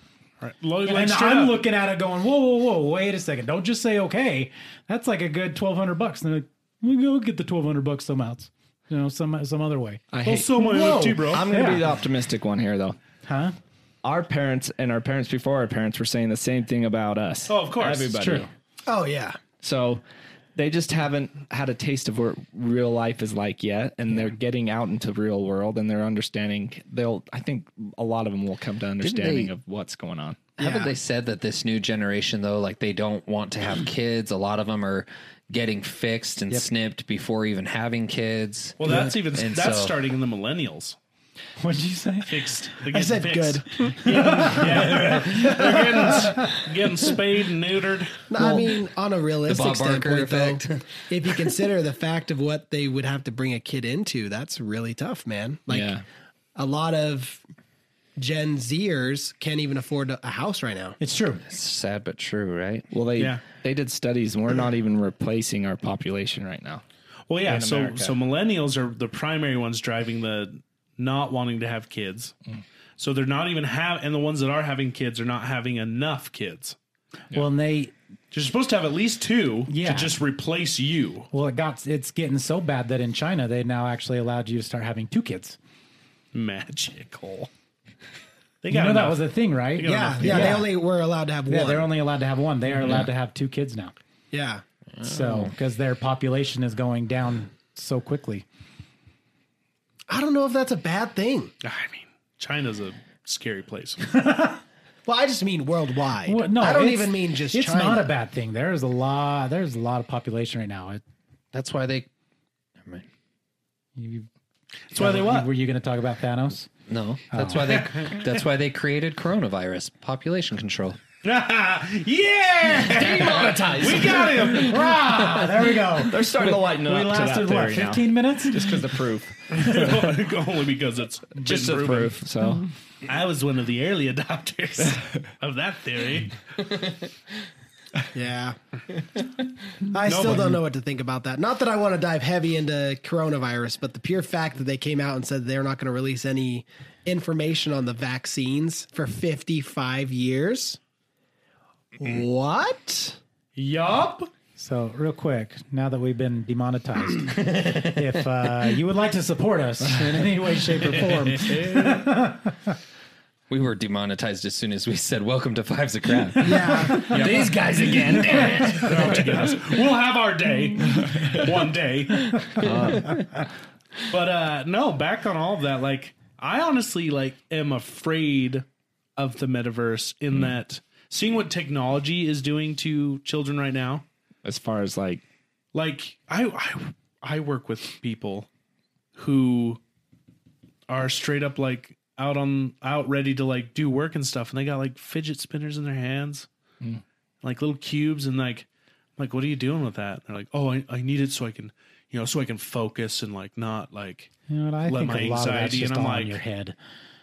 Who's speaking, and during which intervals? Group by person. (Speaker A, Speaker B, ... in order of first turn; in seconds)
Speaker A: 0.4-1.6, 10.2-11.4, 17.5-18.1, 38.8-41.0, 42.2-48.3, 63.2-63.4, 67.3-72.3, 73.0-76.8, 78.3-81.3, 86.3-87.5, 88.6-90.6, 101.6-104.0, 114.9-115.5, 121.2-124.9, 129.5-132.2, 133.1-136.4, 140.1-140.6, 153.6-154.3, 160.9-162.1, 167.1-167.4, 168.8-172.6, 174.1-178.6, 179.2-184.1, 185.7-188.5, 189.2-189.8, 190.9-196.5, 197.4-198.7, 199.2-204.3, 204.8-206.4
Speaker B: 0.8-11.8, 13.2-13.5, 18.1-18.5, 41.6-42.4, 44.0-46.5, 61.0-61.4, 77.3-77.9, 79.7-80.2, 81.3-85.6, 88.7-90.7, 91.5-93.9, 95.0-98.5, 104.1-104.6, 106.2-111.0, 114.0-114.3, 114.9-116.7, 117.3-117.8, 124.5-128.9, 154.6-162.7, 166.8-167.1, 168.4-168.8, 204.5-206.8
Speaker C: 10.1-10.5, 11.2-13.0, 14.0-18.5, 19.6-20.0, 20.5-30.5, 55.7-56.0, 62.9-66.8, 67.4-68.1, 122.8-124.8, 125.9-129.9, 131.4-132.7, 167.1-169.2, 170.9-171.4, 172.5-173.2, 184.4-185.2
Speaker D: 18.9-19.4, 30.6-30.9, 42.9-45.0, 45.6-46.1, 48.3-56.0, 56.5-57.4, 58.2-61.0, 89.8-91.9, 94.3-94.6, 100.1-101.5, 105.0-108.1, 138.1-138.6, 139.9-150.8, 152.0-153.2, 166.4-167.1
Speaker E: 29.0-29.5, 30.6-39.9, 49.4-51.4, 61.5-62.9, 95.0-95.5, 111.5-112.1, 116.9-121.0, 157.3-158.1, 163.5-168.9, 172.7-173.2